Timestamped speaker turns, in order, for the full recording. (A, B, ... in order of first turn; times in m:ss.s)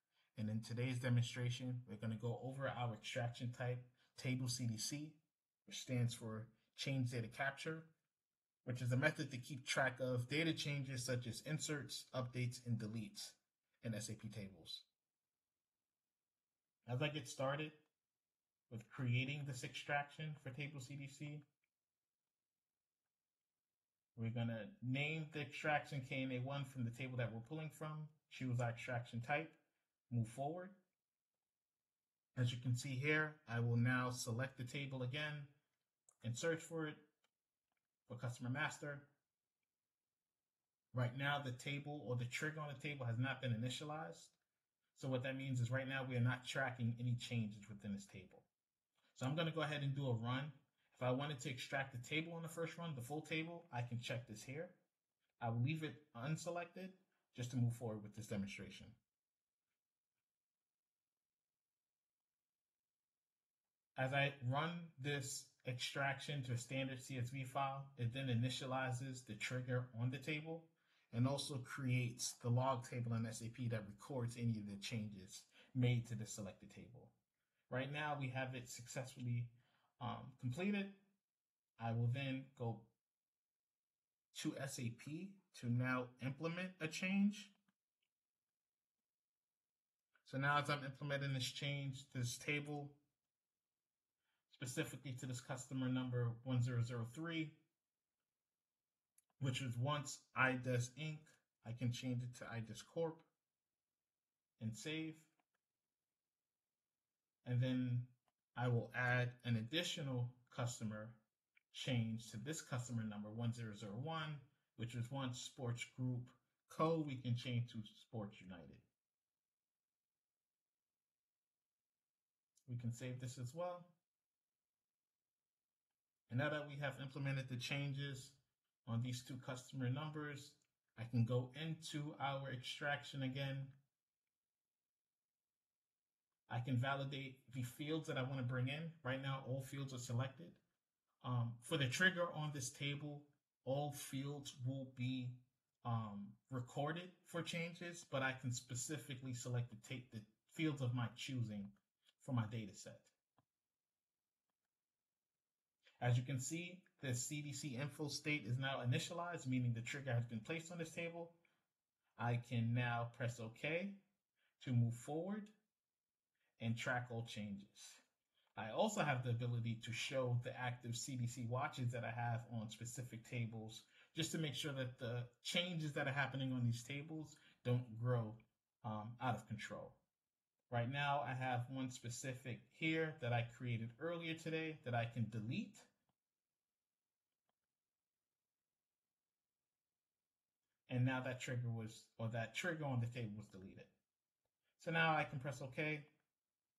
0:00.4-0:07.9 A
0:08.6-0:14.9 A
0:16.9-0:17.8 A
0:18.7-0:21.4 A
0:24.2-0:29.6 A
0:30.1-0:30.8 A
0:32.4-0:35.5 A
0:36.2-0:37.0 A
0:38.1-0:39.1 A
0:40.9-0:44.3 A
0:45.0-0:48.5 A
0:49.1-0:54.8 A
0:55.4-0:59.0 A
1:04.0-1:17.1 A
1:17.7-1:21.0 A
1:21.8-1:22.9 A
1:24.3-1:27.5 A
1:30.2-1:33.0 A
1:34.5-1:37.6 A
1:39.4-1:43.3 A
1:44.6-1:45.3 A
1:47.4-1:51.2 A
1:51.7-1:58.9 A
2:02.7-2:03.9 A
2:06.3-2:13.8 A
2:16.5-2:20.6 A
2:21.2-2:33.1 A
2:36.0-2:41.4 A
2:42.2-2:44.0 A
2:44.6-2:45.5 A
2:46.6-2:48.0 A
2:48.6-3:00.0 A
3:00.7-3:05.9 A
3:10.9-3:13.9 A
3:14.8-3:16.1 A